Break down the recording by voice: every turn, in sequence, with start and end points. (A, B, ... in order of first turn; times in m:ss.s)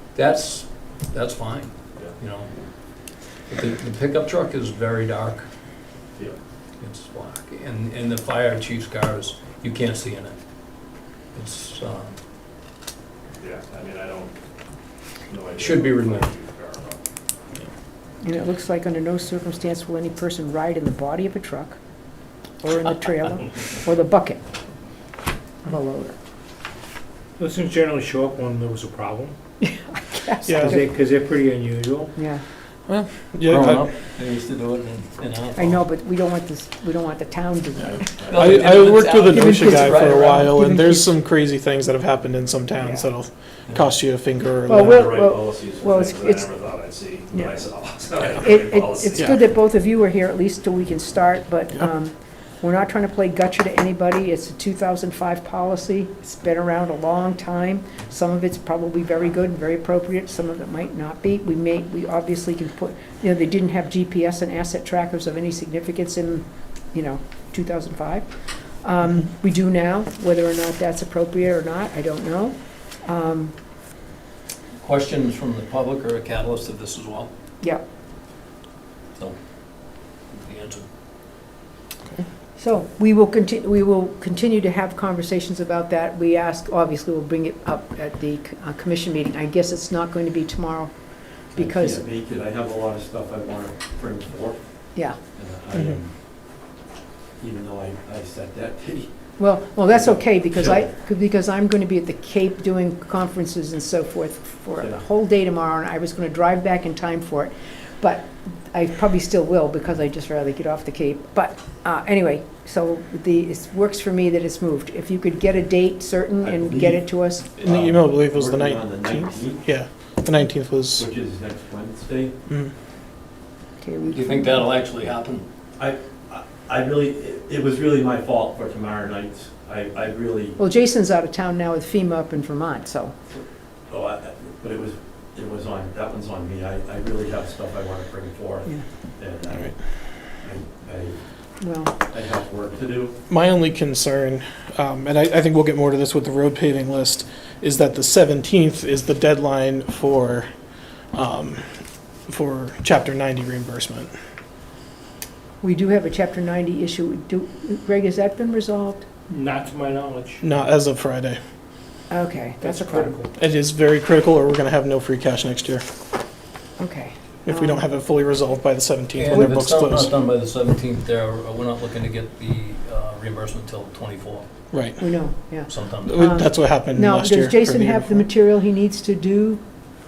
0:00.2-0:02.5 A
0:03.5-0:05.5 A
0:06.8-0:10.4 A
0:11.4-0:12.2 A
0:13.4-0:14.3 B
0:15.3-0:17.0 B
0:15.6-0:16.3 A
0:18.2-0:21.8 C
0:22.6-0:24.4 C
0:25.6-0:26.2 C
0:27.4-0:29.4 D
0:29.6-0:30.9 C
0:30.5-0:30.8 E
0:30.7-0:32.1 D
0:32.2-0:32.4 C
0:32.9-0:35.8 A
0:33.3-0:33.9 E
0:35.6-0:38.2 C
0:38.0-0:38.9 B
0:38.2-0:40.4 A
0:38.2-0:45.2 E
0:39.2-0:41.1 C
0:44.7-0:46.5 C
0:44.7-0:49.4 B
0:48.4-1:08.3 C
1:08.8-1:13.5 C
1:14.8-1:17.3 A
1:20.3-1:20.9 A
1:22.6-1:30.9 C
1:31.5-1:32.0 C
1:31.6-1:34.6 F
1:35.3-1:36.2 F
1:37.4-1:39.1 F
1:39.4-1:57.5 C
1:39.9-1:40.8 F
1:56.4-1:57.0 F
1:57.6-2:01.1 E
1:57.6-1:59.6 F
2:01.0-2:02.3 F
2:03.8-2:04.7 C
2:04.1-2:05.4 A
2:05.8-2:10.6 F
2:10.6-2:13.1 C
2:13.9-2:21.2 F
2:21.6-2:21.9 C
2:22.0-2:23.2 F
2:23.3-2:30.5 E
2:31.1-2:31.6 E
2:32.3-2:34.1 E
2:35.6-2:39.1 C
2:39.3-2:40.4 D
2:40.4-2:41.4 E
2:42.1-2:43.2 C
2:42.7-2:43.2 D
2:43.3-2:45.8 E
2:46.8-2:47.8 C
2:47.4-2:50.1 E
2:49.2-2:54.5 A
2:54.7-2:55.0 E
2:55.0-2:59.6 C
2:55.7-2:56.2 A
2:56.0-2:58.3 E